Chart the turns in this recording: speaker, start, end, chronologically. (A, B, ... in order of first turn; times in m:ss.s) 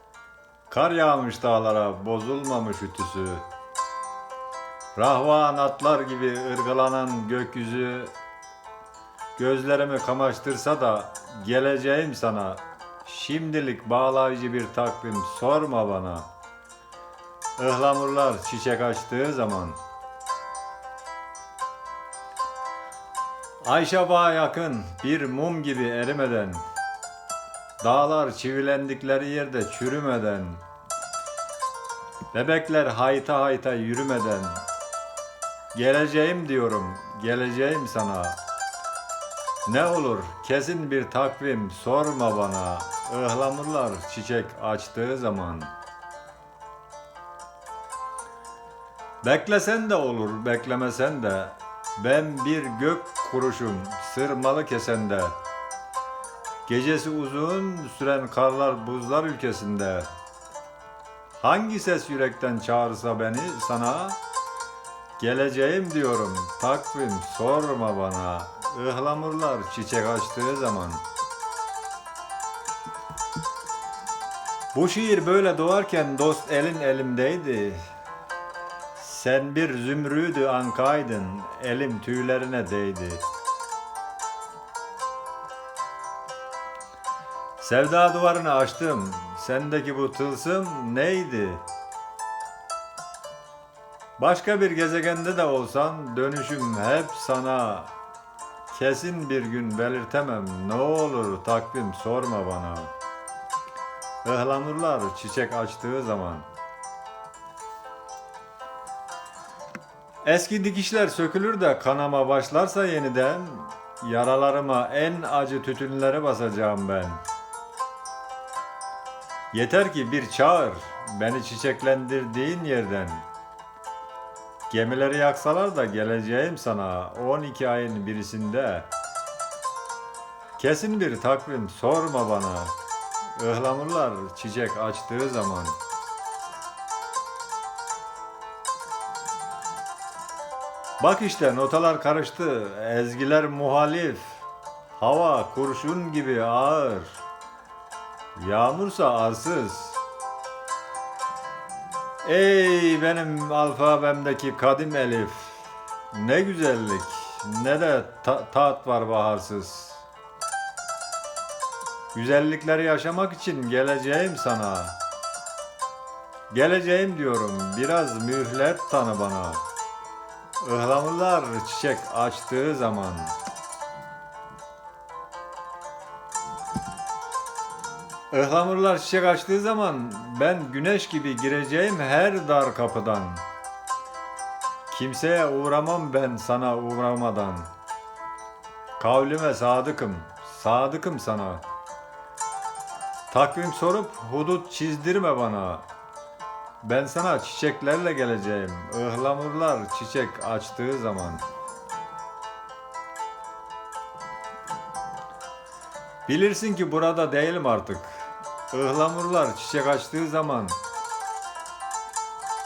0:00.7-0:03.4 A
0:04.9-0:08.1 A
0:09.4-0:16.3 A
0:17.6-0:19.8 A
0:23.6-0:26.6 A
0:27.8-0:30.6 A
0:32.3-0:34.6 A
0:35.7-0:38.4 A
0:39.6-0:45.7 A
0:49.2-0:55.4 A
0:56.6-1:00.1 A
1:01.4-1:04.2 A
1:05.2-1:11.0 A
1:14.7-1:17.9 A
1:18.9-1:23.2 A
1:27.6-1:31.6 A
1:34.2-1:37.9 A
1:38.7-1:42.9 A
1:44.2-1:46.5 A
1:50.2-1:57.2 A
1:59.5-2:03.2 A
2:04.7-2:08.9 A
2:10.6-2:12.7 A
2:13.3-2:15.8 A
2:21.0-2:24.4 A
2:25.0-2:27.2 A
2:28.4-2:30.0 A
2:32.2-2:40.0 A
2:42.1-2:45.0 A
2:46.5-2:49.6 A
2:50.6-2:53.3 A
2:58.3-3:03.4 A
3:04.9-3:07.7 A
3:09.0-3:11.6 A
3:13.3-3:15.8 A
3:16.8-3:21.4 A
3:26.3-3:30.8 A